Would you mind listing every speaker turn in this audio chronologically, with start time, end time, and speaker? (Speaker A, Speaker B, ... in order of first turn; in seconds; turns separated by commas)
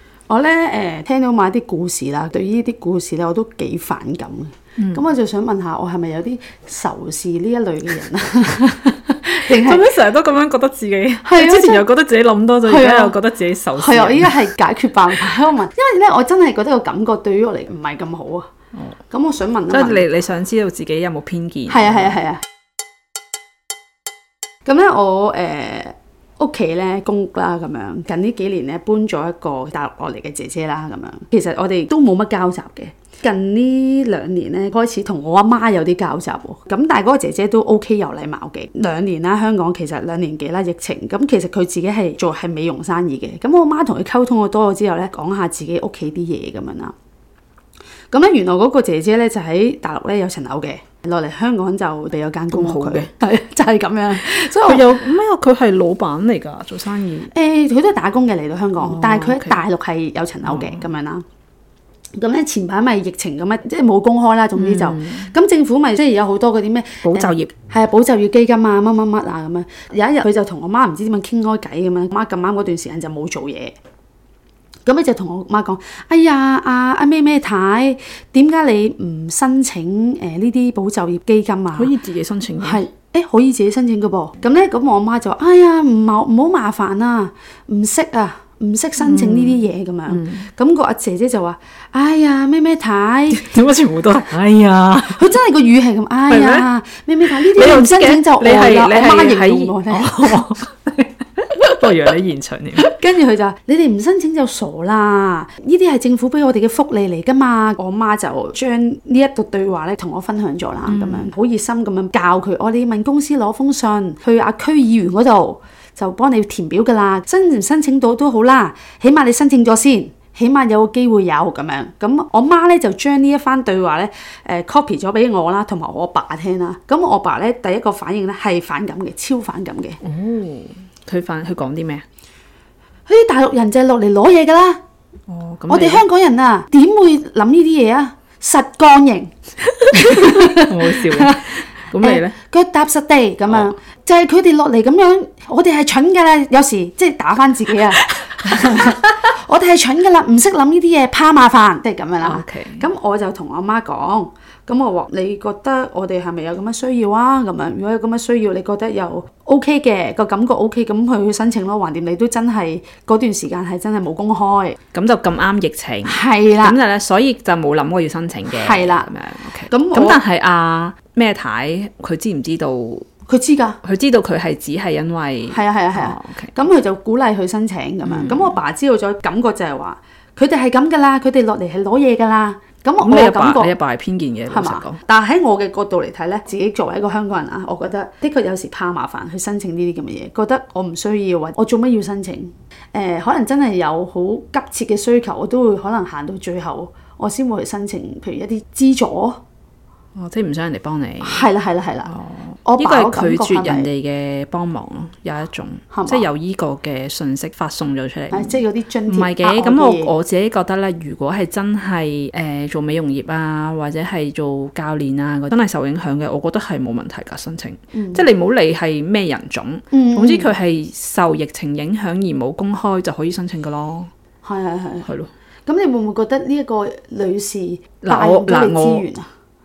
Speaker A: 0.3-9.8, Speaker B: 4.8-5.0, Speaker B: 9.5-14.3, Speaker A: 11.2-11.8, Speaker A: 12.6-13.2, Speaker A: 13.8-18.5, Speaker A: 19.1-20.0, Speaker B: 19.7-22.2, Speaker A: 21.7-22.4, Speaker A: 24.6-46.9, Speaker A: 48.1-55.0, Speaker B: 52.5-53.1, Speaker B: 54.5-57.3, Speaker A: 57.3-61.2, Speaker B: 58.8-59.6, Speaker B: 60.5-60.8, Speaker A: 62.1-73.7, Speaker B: 64.5-65.3, Speaker B: 67.0-67.5, Speaker A: 74.8-81.9, Speaker B: 81.7-82.8, Speaker A: 82.6-93.5, Speaker B: 89.0-90.5, Speaker B: 93.3-95.3, Speaker A: 95.0-100.4, Speaker B: 96.3-96.7, Speaker B: 97.2-102.9, Speaker A: 102.8-130.0, Speaker B: 110.9-111.3, Speaker B: 130.0-132.0, Speaker A: 133.1-134.8, Speaker B: 135.3-136.0, Speaker A: 135.7-139.3, Speaker B: 139.8-142.3, Speaker A: 139.9-141.4, Speaker A: 142.0-164.8, Speaker B: 148.1-149.0, Speaker B: 152.2-152.8, Speaker B: 164.9-173.1, Speaker A: 166.1-166.8, Speaker A: 168.5-169.1, Speaker A: 169.7-170.2, Speaker A: 173.3-173.8, Speaker B: 173.8-176.5, Speaker A: 175.5-183.7, Speaker B: 178.0-178.6, Speaker B: 183.0-185.0, Speaker A: 184.5-199.4, Speaker B: 200.2-201.5, Speaker A: 201.2-202.1, Speaker B: 202.1-224.1, Speaker A: 202.7-203.9, Speaker A: 205.9-206.2, Speaker A: 208.3-210.1, Speaker A: 217.9-218.2, Speaker A: 219.9-220.5, Speaker A: 224.4-225.1, Speaker B: 225.0-225.3, Speaker A: 225.7-229.3, Speaker B: 228.0-229.1